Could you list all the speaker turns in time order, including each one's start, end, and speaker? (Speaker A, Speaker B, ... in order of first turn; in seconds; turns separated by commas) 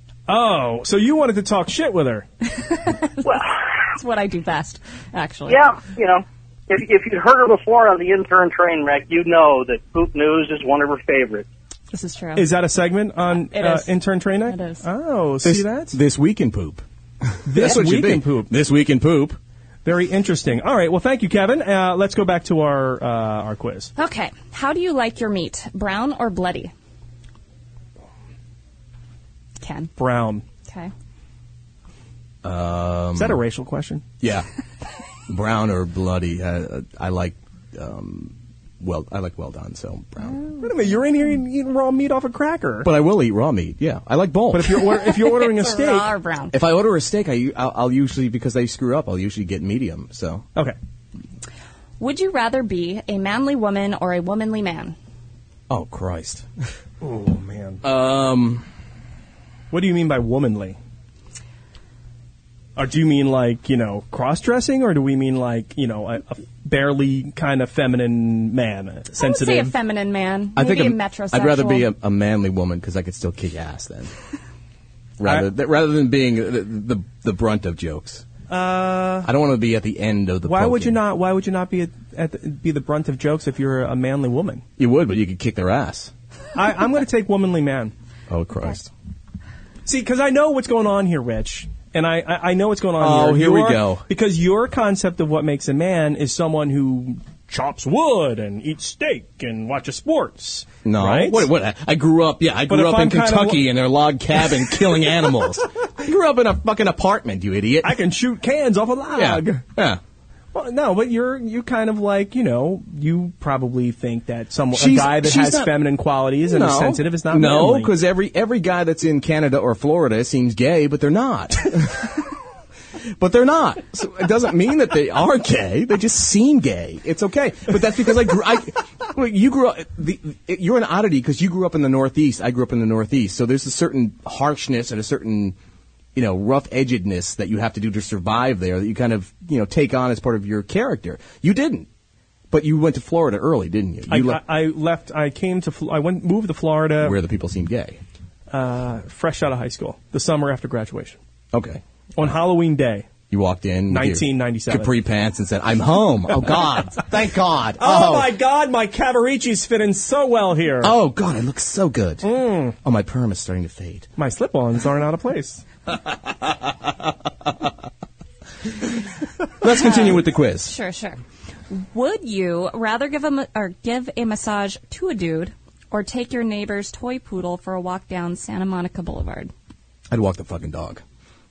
Speaker A: 0.3-2.3, Speaker B: 2.5-5.6, Speaker C: 5.5-11.5, Speaker B: 11.9-12.5, Speaker A: 12.4-16.0, Speaker B: 13.3-13.9, Speaker B: 14.4-14.8, Speaker D: 15.4-19.4, Speaker A: 17.4-18.5, Speaker A: 19.9-23.9, Speaker B: 24.0-26.7, Speaker B: 29.6-29.9, Speaker A: 30.0-30.4, Speaker D: 32.4-33.4, Speaker A: 33.1-34.0, Speaker D: 34.2-34.5, Speaker D: 35.3-40.4, Speaker B: 40.3-40.6, Speaker A: 40.6-42.9, Speaker D: 42.8-44.9, Speaker A: 44.5-46.1, Speaker B: 45.0-46.6, Speaker D: 46.5-50.5, Speaker B: 52.0-55.0, Speaker D: 55.7-56.5, Speaker A: 57.0-57.8, Speaker D: 57.8-58.7, Speaker A: 59.7-60.8, Speaker A: 62.8-69.7, Speaker B: 69.2-71.9, Speaker D: 70.6-74.1, Speaker D: 75.2-78.3, Speaker A: 75.2-75.5, Speaker A: 78.5-79.3, Speaker D: 79.2-81.0, Speaker A: 80.5-84.6, Speaker D: 84.8-86.1, Speaker A: 86.5-87.9, Speaker D: 88.3-88.9, Speaker A: 89.9-101.5, Speaker D: 93.0-94.0, Speaker D: 100.8-108.0, Speaker A: 102.7-103.7, Speaker A: 107.8-109.6, Speaker D: 109.2-110.0, Speaker A: 110.5-117.9, Speaker D: 114.7-115.8, Speaker D: 116.4-122.2, Speaker D: 123.2-135.6, Speaker D: 136.2-141.9, Speaker D: 142.5-144.4, Speaker A: 144.1-147.2, Speaker D: 147.0-148.0, Speaker A: 148.5-151.2, Speaker D: 151.5-152.3, Speaker A: 152.2-153.1, Speaker D: 153.3-158.3, Speaker A: 153.9-155.0, Speaker A: 157.8-160.9, Speaker D: 160.8-164.1, Speaker A: 162.2-162.8, Speaker A: 164.2-165.6, Speaker D: 169.6-170.7, Speaker B: 169.7-179.5, Speaker D: 180.1-181.0